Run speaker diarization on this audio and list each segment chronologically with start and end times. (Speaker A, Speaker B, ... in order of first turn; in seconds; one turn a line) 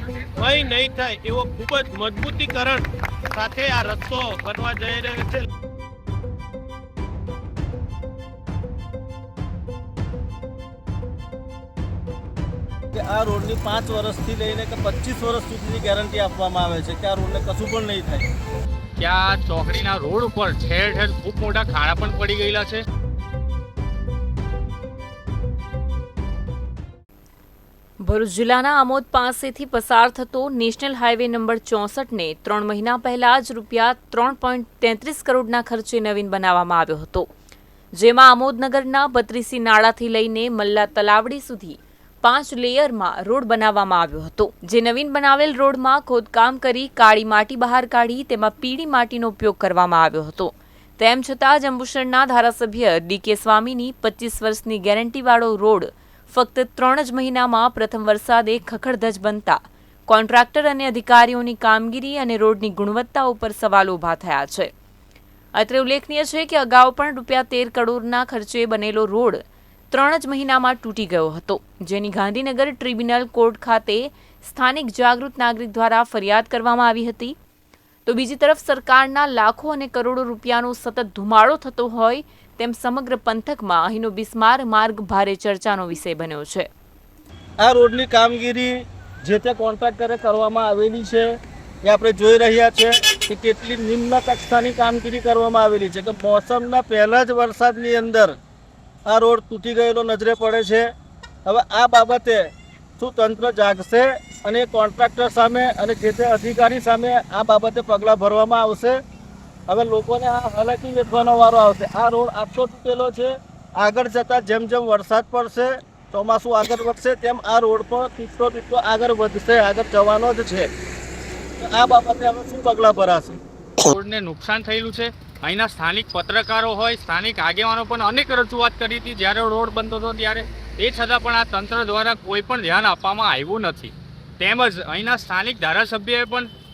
Speaker A: 0.4-5.5
Speaker B: 12.9-18.3
Speaker C: 19.0-22.8
Speaker D: 28.0-37.3
Speaker D: 38.0-64.7
Speaker D: 65.5-77.4
Speaker D: 78.0-86.7
Speaker B: 87.6-88.7
Speaker B: 89.2-91.3
Speaker B: 91.8-98.3
Speaker B: 99.1-100.9
Speaker B: 101.5-102.5
Speaker B: 103.0-109.0
Speaker B: 109.7-120.7
Speaker B: 121.6-123.4
Speaker C: 123.8-136.5